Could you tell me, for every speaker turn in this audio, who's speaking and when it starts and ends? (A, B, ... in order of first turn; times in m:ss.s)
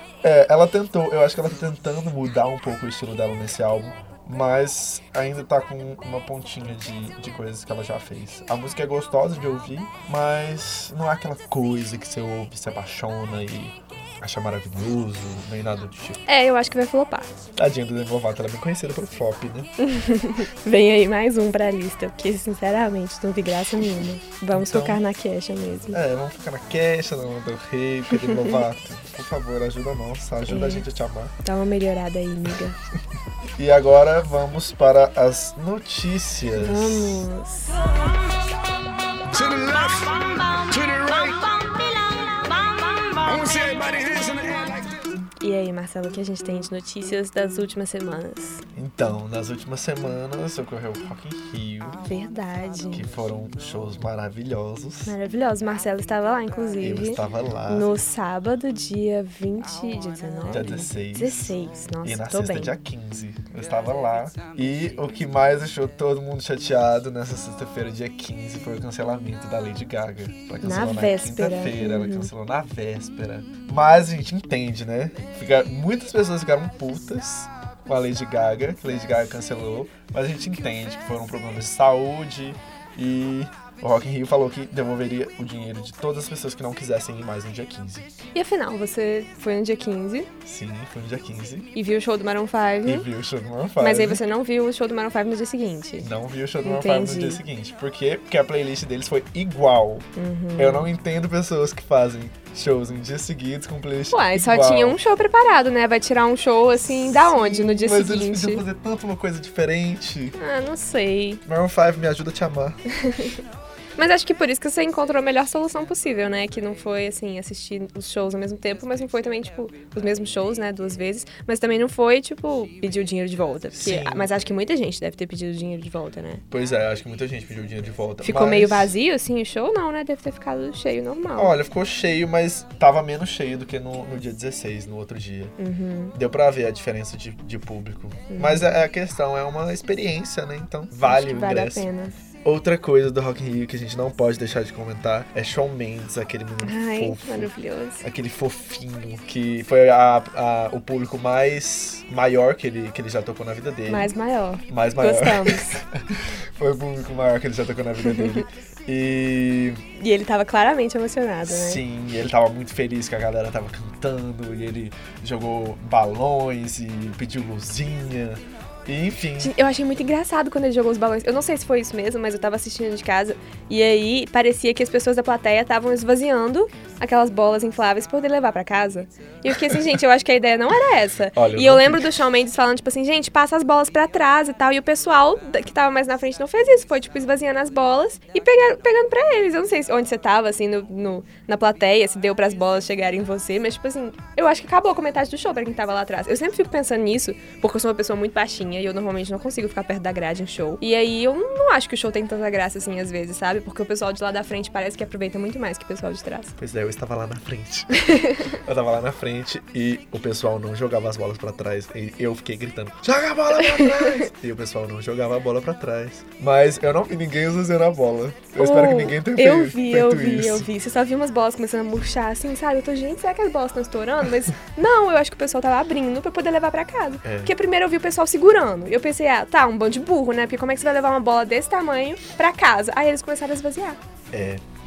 0:00.2-0:16.2 A
0:16.2-0:17.3 B
0:17.6-0:19.7 A
0:19.8-0:26.0 B
0:24.5-0:25.0 A
0:25.9-0:31.3 A
0:28.1-0:28.6 B
0:30.4-0:30.9 B
0:31.4-0:32.8 B
0:33.6-0:37.3 A
0:36.5-0:37.9 B
0:39.3-0:41.5 C
0:42.2-0:42.5 C
0:43.1-0:45.0 C
0:45.4-0:48.6 B
0:48.7-0:52.0 A
0:52.0-0:53.0 B
0:52.9-0:55.1 A
0:55.0-1:02.8 B
0:56.8-0:57.9 A
1:00.5-1:28.1 A
1:10.6-1:12.3 B
1:28.3-1:30.3 B
1:30.4-1:31.7 A
1:31.7-1:33.1 B
1:32.8-1:34.2 A
1:33.8-1:36.1 B
1:36.0-1:40.0 A
1:36.6-1:37.4 B
1:40.2-1:40.9 B
1:40.6-1:45.0 A
1:44.1-1:48.6 B
1:47.1-1:50.4 A
1:50.4-1:51.4 B
1:51.4-1:53.2 A
1:52.9-1:53.4 B
1:54.0-2:06.4 B
2:03.7-2:04.3 A
2:06.5-2:08.9 A
2:08.2-2:11.5 B
2:11.4-2:15.5 A
2:15.6-2:16.1 B
2:16.1-2:21.9 A
2:18.3-2:18.6 B
2:21.0-2:22.1 B
2:22.4-2:27.5 A
2:26.6-2:28.0 B
2:28.0-2:34.1 A
2:33.9-2:35.8 B
2:34.7-2:39.8 A
2:38.0-2:38.4 B
2:40.0-2:41.8 B
2:41.4-2:49.5 A
2:49.4-3:26.5 B
2:59.5-2:59.8 A
3:01.4-3:02.2 A
3:26.6-3:40.7 A
3:28.1-3:28.5 B
3:33.6-3:34.3 B
3:38.6-3:54.0 B
3:47.2-3:47.5 A
3:54.3-3:54.6 A